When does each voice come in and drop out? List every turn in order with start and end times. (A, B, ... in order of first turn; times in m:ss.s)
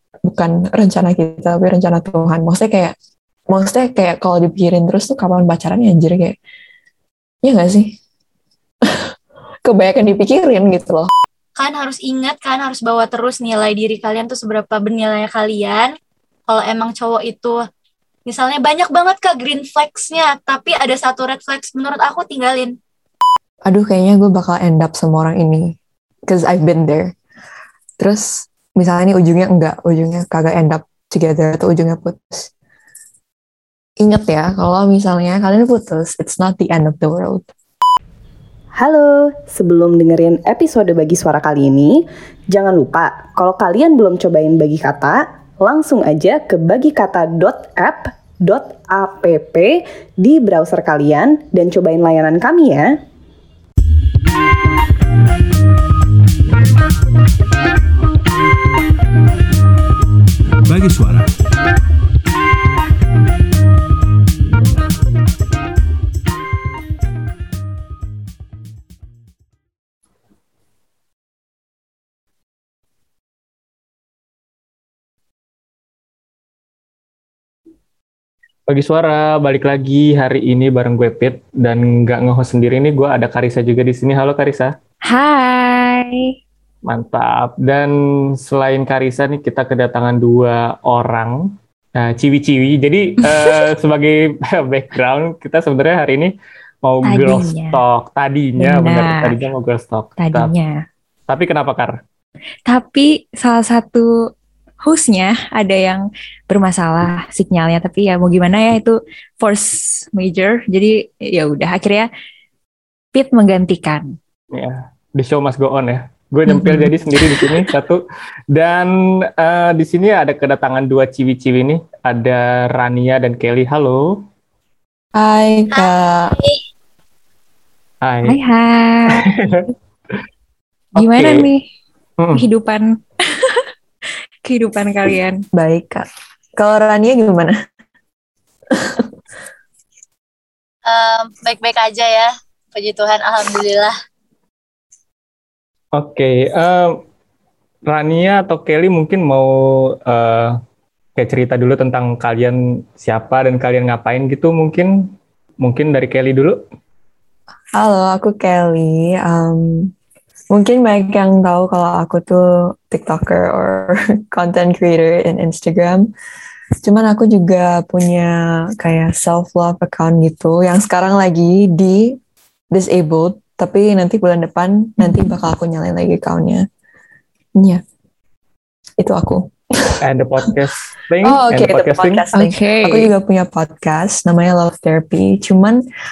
0:00.2-0:02.9 A
0:03.5-0:06.4 A
0:07.4-0:08.0 A
0:09.6-0:11.1 A
0:11.6-0:15.9 B
0:16.5-0:17.6 B
0:18.2-0:22.7 B
0:23.6-0:27.1 A
0:28.0-0:32.5 A
0:34.0-0:37.5 A
0:38.8-0:53.0 C
1:18.7-1:24.7 D
1:25.1-1:26.3 E
1:26.8-1:36.3 D
1:33.2-1:33.6 E
1:36.8-1:40.5 D
1:37.0-1:37.8 E
1:38.6-1:39.4 E
1:40.2-1:40.8 E
1:41.3-1:42.0 D
1:42.7-1:44.1 E
1:44.8-1:52.1 E
1:53.1-1:54.1 E
1:54.5-2:04.2 D
1:56.5-1:57.4 E
2:05.1-2:06.3 A
2:05.7-2:06.6 B
2:08.0-2:08.4 D
2:08.3-2:09.3 E
2:09.1-2:09.7 D
2:11.0-2:11.5 D
2:11.0-2:11.6 E
2:12.2-2:12.4 D
2:12.3-2:13.7 E
2:14.4-2:15.4 E
2:15.6-2:16.0 A
2:16.6-2:17.6 A
2:18.7-2:19.1 A
2:20.9-2:23.9 B
2:25.9-2:27.0 D
2:27.9-2:30.5 D
2:31.2-2:35.1 D
2:35.6-2:36.6 D
2:37.7-2:39.9 A
2:40.5-2:46.1 A
2:46.8-2:52.2 A
2:52.7-2:56.6 A
2:55.0-2:55.3 E
2:59.0-3:00.0 A
3:00.0-3:02.2 D
3:01.2-3:05.8 A
3:02.3-3:03.1 E